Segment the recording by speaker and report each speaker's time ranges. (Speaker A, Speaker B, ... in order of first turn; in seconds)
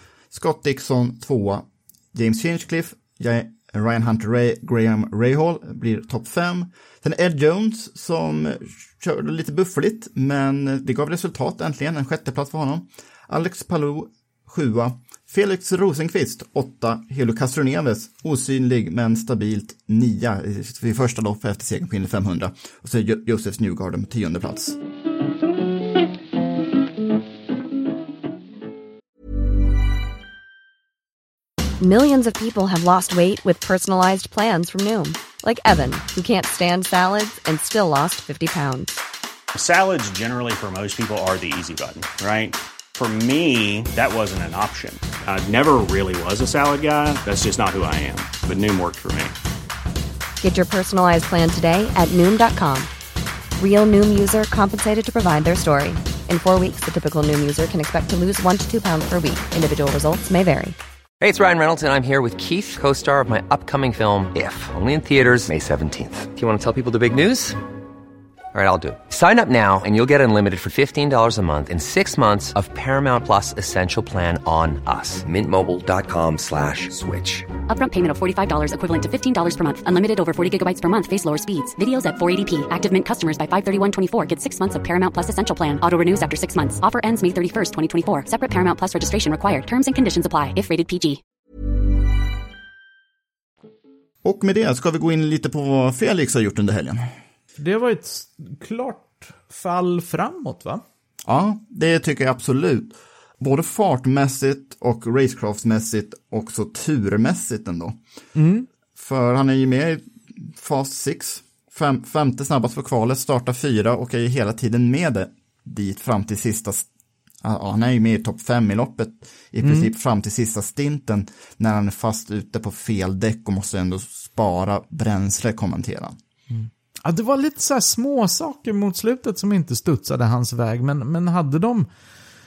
Speaker A: 0.3-24.8, 94.2-97.1, 101.3-108.0, 109.0-116.9, 117.4-126.2
Speaker B: 31.8-38.9, 50.4-52.9, 53.6-60.8
Speaker C: 39.5-49.3
Speaker D: 61.2-67.6, 68.5-77.5
Speaker E: 77.7-91.2
Speaker F: 97.6-100.8, 108.4-108.7, 119.6-119.9, 126.5-131.9